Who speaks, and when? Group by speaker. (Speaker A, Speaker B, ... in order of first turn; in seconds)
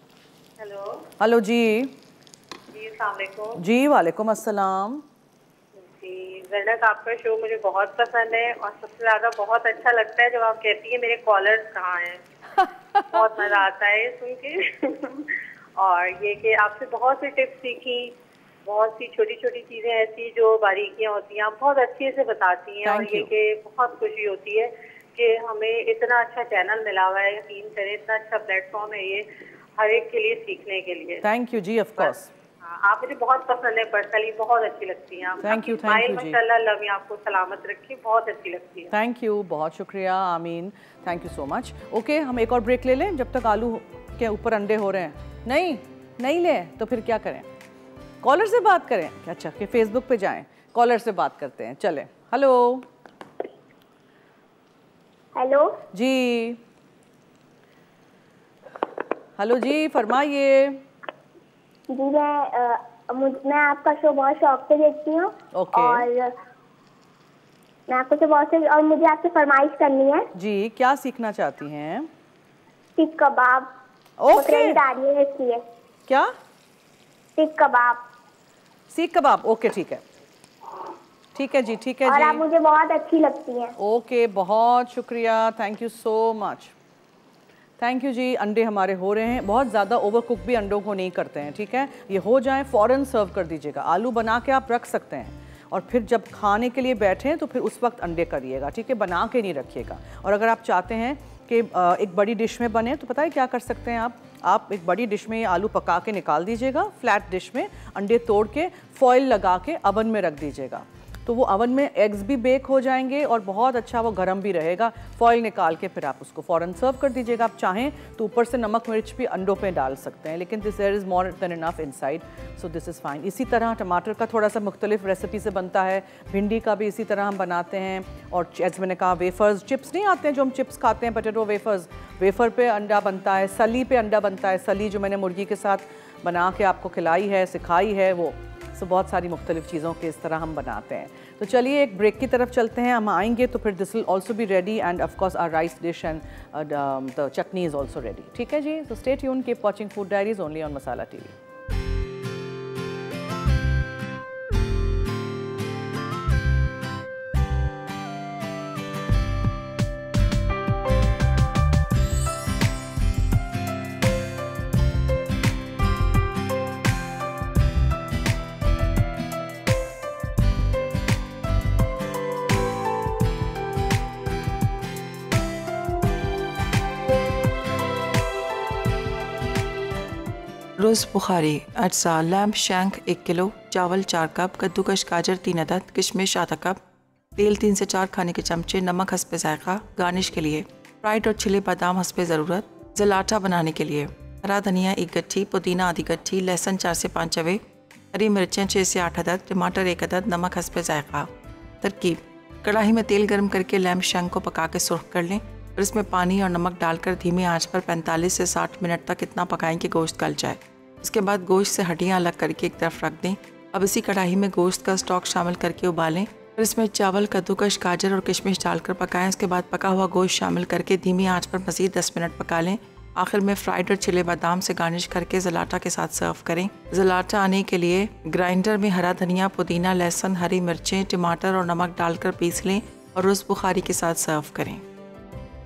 Speaker A: 0.6-1.1, 2.7-3.6, 5.8-12.2, 13.0-31.2, 32.0-38.9
Speaker B: 1.2-2.0, 3.6-5.0, 22.8-23.3, 31.2-32.3, 35.4-36.4, 38.9-47.5, 48.2-52.9, 55.9-56.6, 59.4-60.8, 65.5-66.1, 70.3-72.1, 74.2-74.8, 78.9-80.0, 81.3-82.4, 83.8-86.7, 87.8-151.3
Speaker C: 55.4-55.8, 61.9-66.3, 67.9-70.3, 73.0-73.7, 74.3-75.6, 77.4-78.1, 82.1-83.7
Speaker D: 180.8-186.8, 187.4-197.6, 198.1-201.3, 201.8-234.8